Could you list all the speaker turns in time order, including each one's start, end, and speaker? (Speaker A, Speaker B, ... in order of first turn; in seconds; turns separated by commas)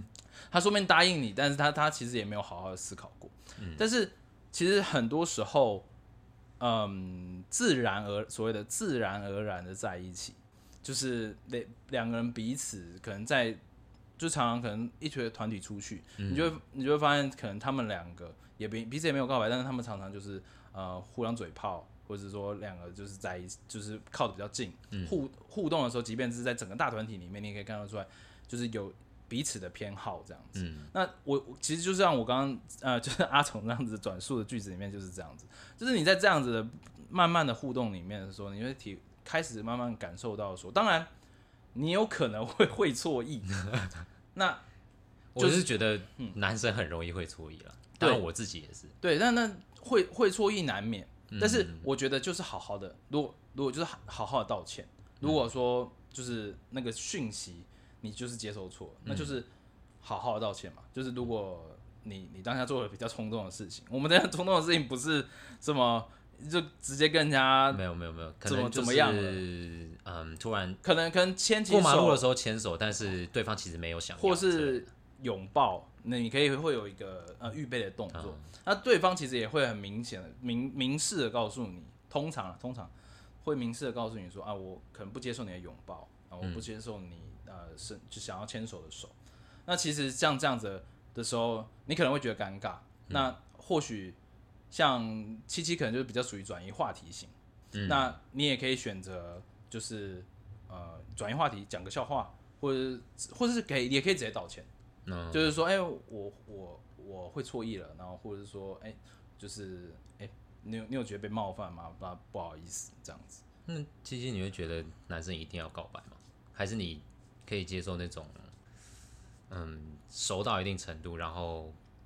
Speaker A: 0.5-5.8, Speaker B: 3.6-3.8, Speaker A: 6.6-13.6, Speaker A: 14.2-41.1, Speaker B: 16.2-16.5, Speaker B: 30.5-30.9, Speaker A: 41.7-43.6, Speaker A: 44.3-44.6, Speaker B: 45.3-48.9, Speaker A: 45.4-46.4, Speaker A: 49.0-59.5, Speaker B: 51.3-51.9, Speaker B: 59.0-59.4, Speaker A: 60.0-67.8, Speaker B: 67.7-70.8, Speaker A: 68.4-69.4, Speaker A: 70.8-72.2, Speaker B: 71.7-74.9, Speaker A: 74.2-82.9, Speaker B: 78.1-78.4, Speaker A: 83.4-89.1, Speaker A: 89.7-94.2, Speaker A: 94.7-97.3, Speaker B: 97.7-98.1, Speaker A: 97.8-104.7, Speaker B: 105.0-105.5, Speaker A: 105.3-113.4, Speaker B: 113.7-118.5, Speaker B: 119.5-121.8